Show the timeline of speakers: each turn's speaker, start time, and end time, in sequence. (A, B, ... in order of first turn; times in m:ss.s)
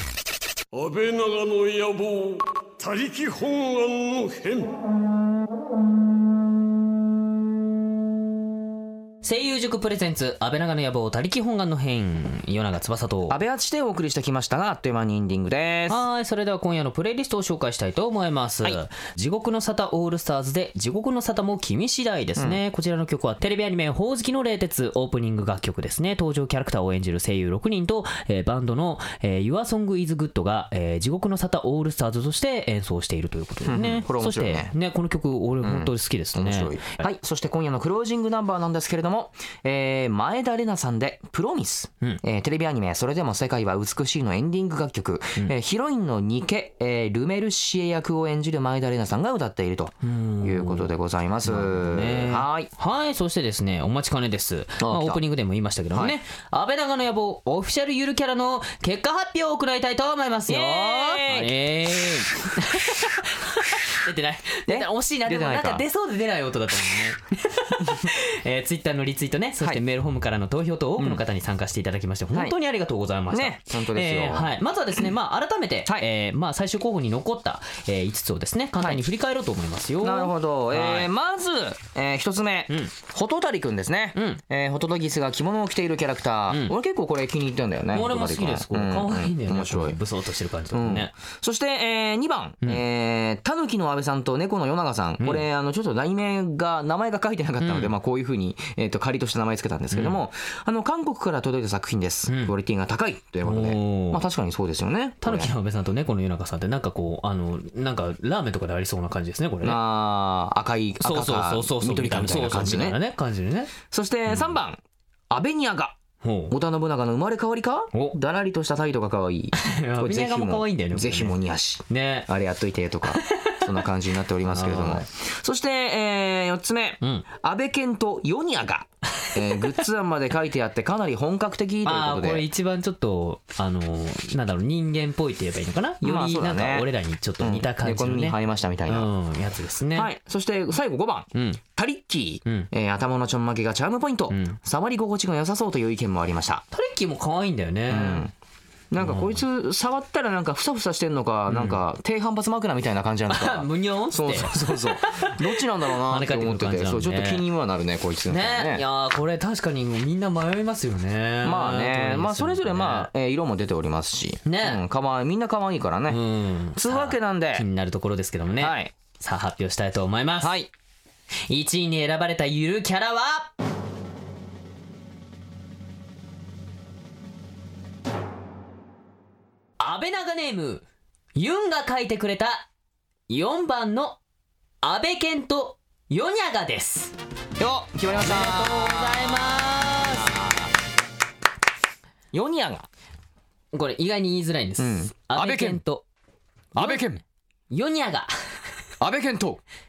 0:00.7-0:04.7 A
0:09.2-0:13.4 B
0:13.3-0:16.0 C
0:15.9-0:37.0 B
0:33.6-0:34.7 C
0:35.6-0:52.7 C
0:50.0-0:50.9 B
0:51.4-1:21.1 B
0:54.8-0:55.2 C
1:00.5-1:01.5 C
1:04.7-1:05.8 C
1:13.3-1:14.5 C
1:20.0-1:30.0 C
1:24.1-1:24.4 B
1:26.5-1:26.8 B
1:27.9-1:31.1 B
1:30.7-1:45.5 C
1:35.2-1:35.4 B
1:37.6-1:37.9 B
1:39.9-1:40.2 B
1:42.3-1:42.5 B
1:43.4-1:44.2 B
1:45.2-1:49.8 B
1:49.6-1:53.0 C
1:51.0-1:53.7 B
1:53.9-2:12.4 C
1:54.3-1:54.6 B
1:56.2-1:56.6 B
1:59.6-2:01.4 B
2:01.9-2:02.3 B
2:04.4-2:05.0 B
2:07.0-2:07.3 B
2:09.2-2:09.8 B
2:11.8-2:20.1 B
2:16.0-2:16.9 C
2:17.4-2:19.1 C
2:19.9-2:26.6 C
2:21.3-2:21.6 B
2:24.3-2:24.6 B
2:26.7-2:28.3 B
2:27.9-2:28.3 C
2:28.9-2:38.8 C
2:29.0-2:29.4 B
2:31.5-2:31.8 B
2:33.3-2:37.4 B
2:38.3-2:43.1 B
2:41.4-2:46.2 C
2:44.4-2:44.8 B
2:46.1-2:50.5 B
2:46.7-2:47.6 C
2:48.6-2:48.9 C
2:50.4-2:50.7 C
2:51.5-2:53.5 B
2:59.8-3:02.7 B
3:03.3-3:04.2 B
3:04.8-3:07.2 B
3:07.6-3:10.7 C
3:08.2-3:10.3 B
3:12.3-3:12.9 C
3:13.7-3:16.0 B
3:14.8-3:15.8 C
3:16.7-3:17.2 B
3:16.7-3:17.2 C
3:17.7-3:18.6 B
3:19.0-3:19.6 C